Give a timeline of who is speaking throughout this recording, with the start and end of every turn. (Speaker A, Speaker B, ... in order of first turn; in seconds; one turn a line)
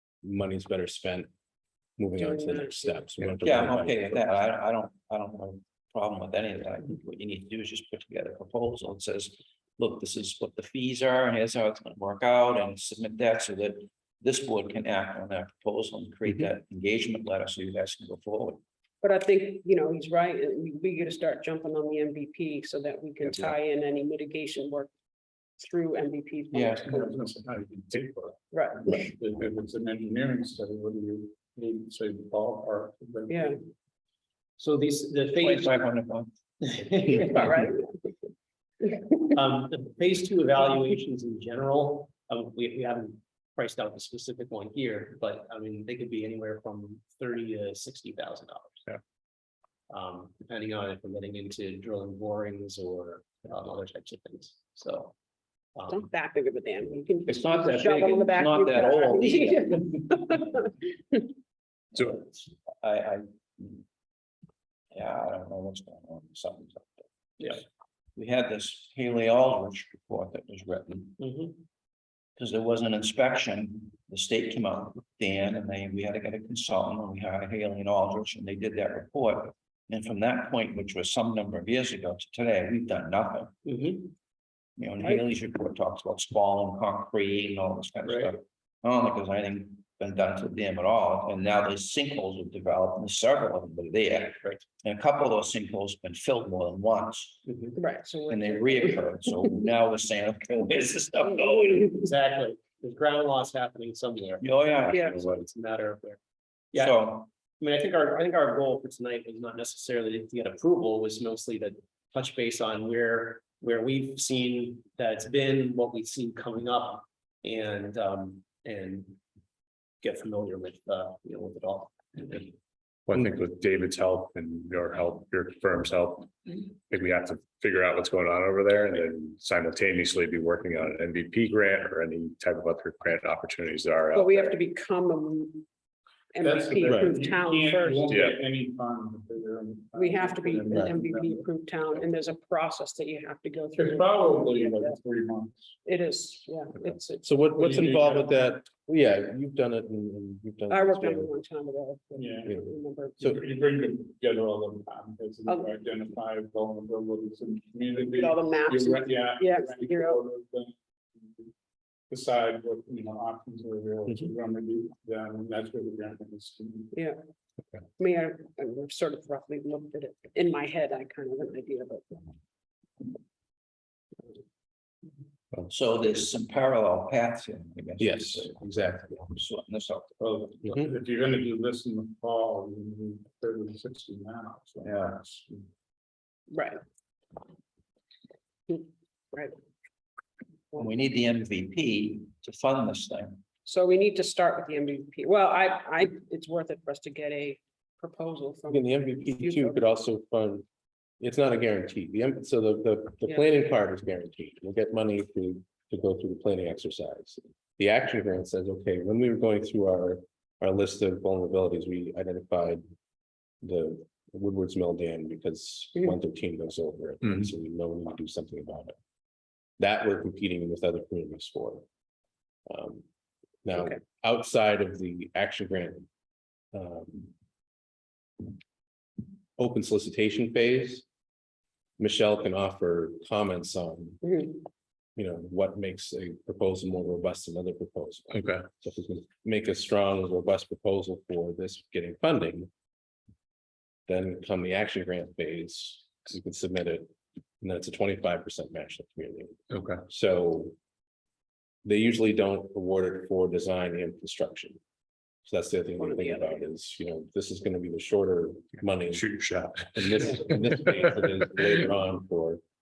Speaker A: 0.2-1.3
Speaker A: 2.0-4.3
Speaker B: 2.2-3.0
Speaker C: 3.4-18.6
Speaker B: 19.0-24.9
Speaker B: 25.6-27.2
Speaker C: 26.5-26.9
Speaker D: 26.8-28.4
Speaker B: 28.5-29.1
Speaker D: 29.0-33.5
Speaker B: 33.3-33.6
Speaker E: 34.6-35.9
Speaker C: 35.4-36.3
Speaker E: 36.6-37.7
Speaker B: 37.3-37.9
Speaker E: 39.2-48.9
Speaker E: 49.9-55.1
Speaker E: 55.8-56.0
Speaker B: 55.9-60.6
Speaker C: 57.3-60.2
Speaker E: 57.9-58.1
Speaker C: 61.9-63.9
Speaker C: 64.9-67.6
Speaker C: 68.2-71.2
Speaker E: 71.2-71.6
Speaker C: 72.4-83.5
Speaker E: 83.7-84.1
Speaker C: 84.8-97.5
Speaker E: 88.0-88.3
Speaker E: 97.5-97.8
Speaker B: 97.8-99.0
Speaker C: 98.3-102.1
Speaker E: 101.9-106.2
Speaker C: 104.4-105.2
Speaker C: 106.7-107.3
Speaker E: 107.6-119.2
Speaker E: 120.0-122.5
Speaker F: 123.1-134.6
Speaker B: 134.1-135.7
Speaker B: 136.3-138.2
Speaker D: 136.4-141.4
Speaker A: 136.9-137.2
Speaker F: 138.1-138.4
Speaker B: 139.9-145.0
Speaker D: 143.8-145.7
Speaker B: 145.8-148.1
Speaker A: 147.2-151.3
Speaker D: 147.6-148.3
Speaker B: 150.7-153.3
Speaker D: 152.2-152.5
Speaker A: 152.4-153.4
Speaker D: 153.3-161.5
Speaker B: 155.4-156.1
Speaker B: 157.9-160.2
Speaker D: 162.1-166.9
Speaker B: 168.0-172.2
Speaker C: 175.7-178.6
Speaker A: 178.0-179.3
Speaker C: 179.3-180.2
Speaker D: 180.2-185.7
Speaker A: 180.6-180.9
Speaker C: 184.8-185.2
Speaker B: 186.5-186.8
Speaker B: 188.7-189.6
Speaker C: 190.8-193.4
Speaker B: 193.7-199.8
Speaker A: 198.7-200.7
Speaker A: 201.2-212.8
Speaker A: 213.6-219.0
Speaker A: 219.8-221.8
Speaker A: 222.7-223.1
Speaker A: 223.7-226.1
Speaker A: 226.7-227.3
Speaker A: 229.6-231.1
Speaker A: 232.0-234.5
Speaker A: 235.2-242.7
Speaker A: 244.1-250.8
Speaker F: 249.7-250.0
Speaker A: 251.8-254.8
Speaker A: 255.4-259.4
Speaker B: 256.0-256.6
Speaker F: 259.1-260.4
Speaker A: 259.9-262.6